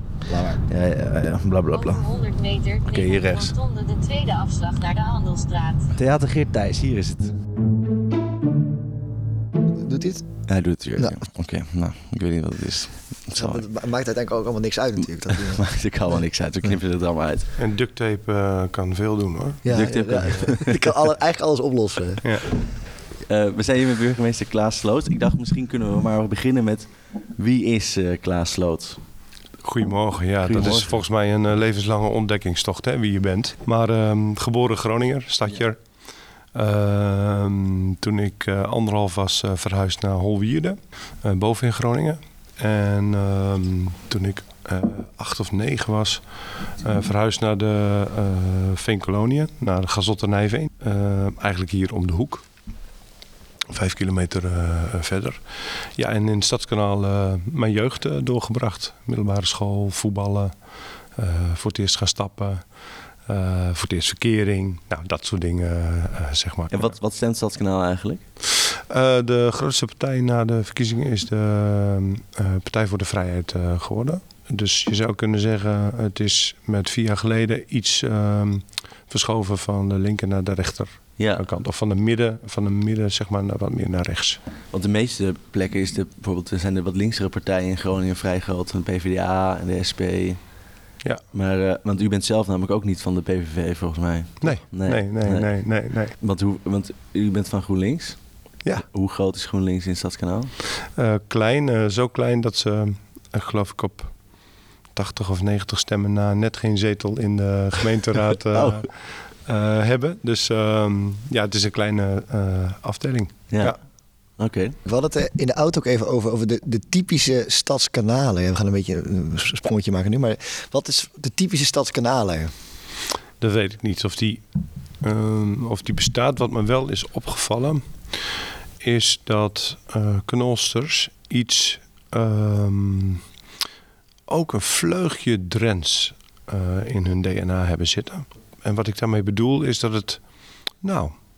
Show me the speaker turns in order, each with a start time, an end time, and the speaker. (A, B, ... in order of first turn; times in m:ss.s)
0:00.2-0:00.6 A
0:00.7-0:02.0 B
0:01.7-0:05.9 C
0:02.9-0:03.5 B
0:06.0-0:07.3 B
0:09.8-0:10.2 A
0:10.5-0:13.6 B
0:13.3-0:15.6 A
0:15.3-0:17.5 B
0:17.6-0:19.6 D
0:19.6-0:22.2 A
0:19.7-0:20.9 B
0:23.3-0:29.0 B
0:29.6-0:35.8 D
0:30.4-0:30.9 B
0:36.5-0:46.2 D
0:46.8-0:52.4 D
0:53.7-0:55.4 D
0:56.0-1:00.5 D
1:01.2-1:02.6 D
1:03.3-1:07.0 D
1:06.7-1:08.2 B
1:08.6-1:24.4 D
1:21.2-1:21.4 B
1:24.7-1:30.4 B
1:31.3-1:35.5 B
1:34.4-1:36.1 D
1:36.2-1:38.2 B
1:38.9-1:40.5 B
1:41.0-1:44.1 D
1:44.9-1:53.8 D
1:48.5-1:48.8 B
1:53.5-1:53.8 B
1:54.4-1:54.8 B
1:54.8-2:02.5 A
2:03.4-2:04.4 D
2:05.0-2:07.8 D
2:08.8-2:13.2 D
2:14.3-2:20.2 D
2:20.8-2:21.1 D